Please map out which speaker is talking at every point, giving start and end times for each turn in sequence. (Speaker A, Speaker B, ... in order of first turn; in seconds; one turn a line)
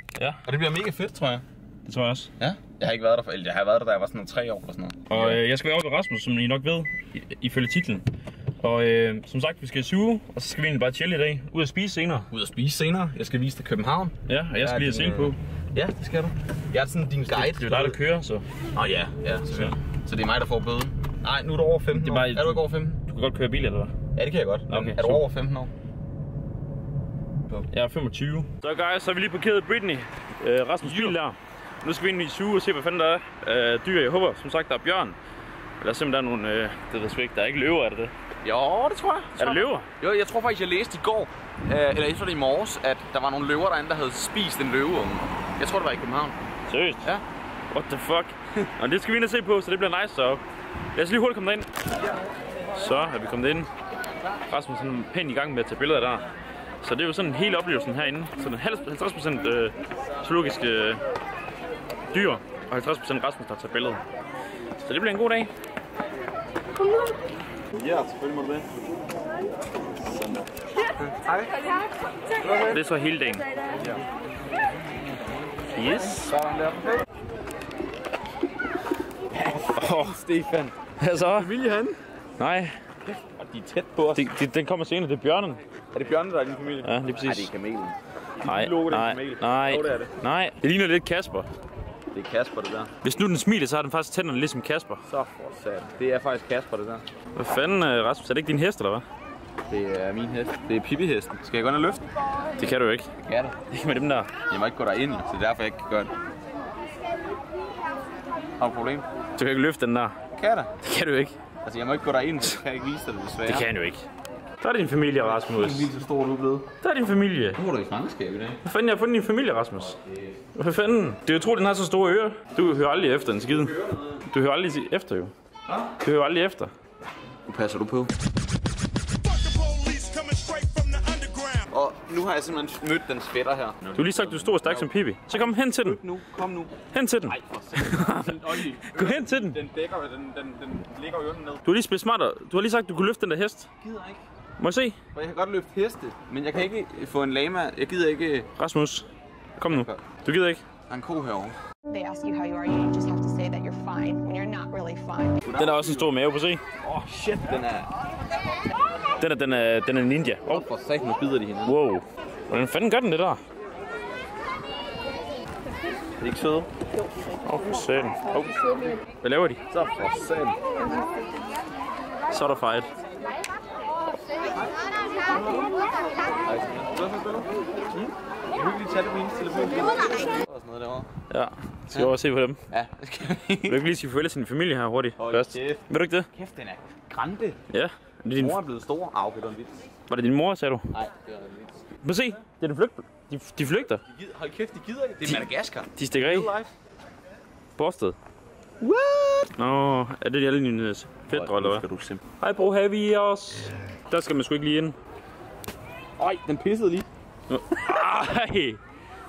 Speaker A: 0.1-0.4
Speaker B: 0.4-1.4
Speaker A: 1.8-2.3
Speaker B: 2.4-5.4
Speaker A: 5.1-8.0
Speaker A: 8.6-12.3
Speaker B: 12.3-18.0
Speaker A: 14.3-15.3
Speaker A: 17.3-18.4
Speaker B: 18.7-23.0
Speaker A: 21.9-23.9
Speaker B: 24.1-25.7
Speaker A: 24.7-25.2
Speaker A: 27.7-35.2
Speaker B: 30.8-31.2
Speaker A: 35.8-38.1
Speaker B: 38.4-46.4
Speaker A: 39.3-39.9
Speaker A: 46.7-47.1
Speaker A: 47.7-50.4
Speaker A: 50.9-51.7
Speaker A: 52.7-53.7
Speaker A: 54.5-56.3
Speaker A: 56.8-61.0
Speaker A: 62.1-64.0
Speaker A: 64.8-65.5
Speaker B: 67.7-68.7
Speaker B: 71.0-71.5
Speaker B: 72.4-72.8
Speaker A: 72.5-73.4
Speaker A: 75.7-76.3
Speaker B: 76.2-77.0
Speaker B: 79.3-80.7
Speaker A: 79.7-80.2
Speaker A: 81.0-81.5
Speaker B: 81.3-82.0
Speaker A: 82.4-82.8
Speaker B: 83.0-84.3
Speaker A: 84.1-85.6
Speaker B: 85.9-90.1
Speaker A: 86.8-87.5
Speaker A: 88.4-91.5
Speaker B: 92.1-92.9
Speaker A: 93.0-95.0
Speaker B: 95.1-97.0
Speaker A: 97.3-99.0
Speaker B: 99.7-102.0
Speaker A: 102.6-103.1
Speaker B: 103.2-103.5
Speaker A: 103.7-104.3
Speaker B: 104.5-106.1
Speaker B: 108.6-109.0
Speaker A: 109.3-110.2
Speaker B: 110.3-110.7
Speaker A: 110.8-111.4
Speaker B: 111.6-113.7
Speaker A: 113.5-114.0
Speaker A: 114.6-115.9
Speaker B: 115.2-116.7
Speaker A: 116.8-117.6
Speaker B: 117.5-118.6
Speaker A: 118.6-120.0
Speaker B: 119.8-120.4
Speaker A: 120.5-123.7
Speaker B: 123.4-124.2
Speaker A: 124.2-125.3
Speaker A: 125.9-126.7
Speaker B: 127.5-128.1
Speaker B: 129.2-141.6
Speaker A: 133.9-136.0
Speaker A: 136.9-139.6
Speaker A: 141.6-143.7
Speaker B: 143.8-144.2
Speaker A: 144.6-144.9
Speaker B: 145.1-148.5
Speaker A: 148.6-149.1
Speaker A: 149.6-150.6
Speaker B: 149.6-150.0
Speaker B: 150.9-151.6
Speaker C: 151.9-155.4
Speaker B: 155.4-156.1
Speaker A: 155.5-156.6
Speaker B: 156.8-157.9
Speaker A: 159.2-160.7
Speaker B: 160.5-161.8
Speaker A: 161.7-163.4
Speaker B: 166.2-166.7
Speaker A: 167.4-168.6
Speaker A: 169.2-169.6
Speaker B: 169.7-170.6
Speaker A: 172.3-172.9
Speaker B: 176.4-181.1
Speaker A: 181.3-182.6
Speaker B: 181.9-182.2
Speaker B: 182.7-183.8
Speaker A: 183.7-186.3
Speaker B: 185.2-187.6
Speaker A: 187.7-188.6
Speaker B: 188.3-189.8
Speaker A: 190.1-190.9
Speaker B: 190.9-191.8
Speaker A: 192.0-194.0
Speaker B: 194.1-196.7
Speaker A: 195.2-196.5
Speaker A: 197.8-198.2
Speaker B: 198.8-199.5
Speaker A: 199.6-201.8
Speaker B: 201.3-202.2
Speaker A: 202.4-204.9
Speaker B: 206.2-207.1
Speaker A: 207.5-208.8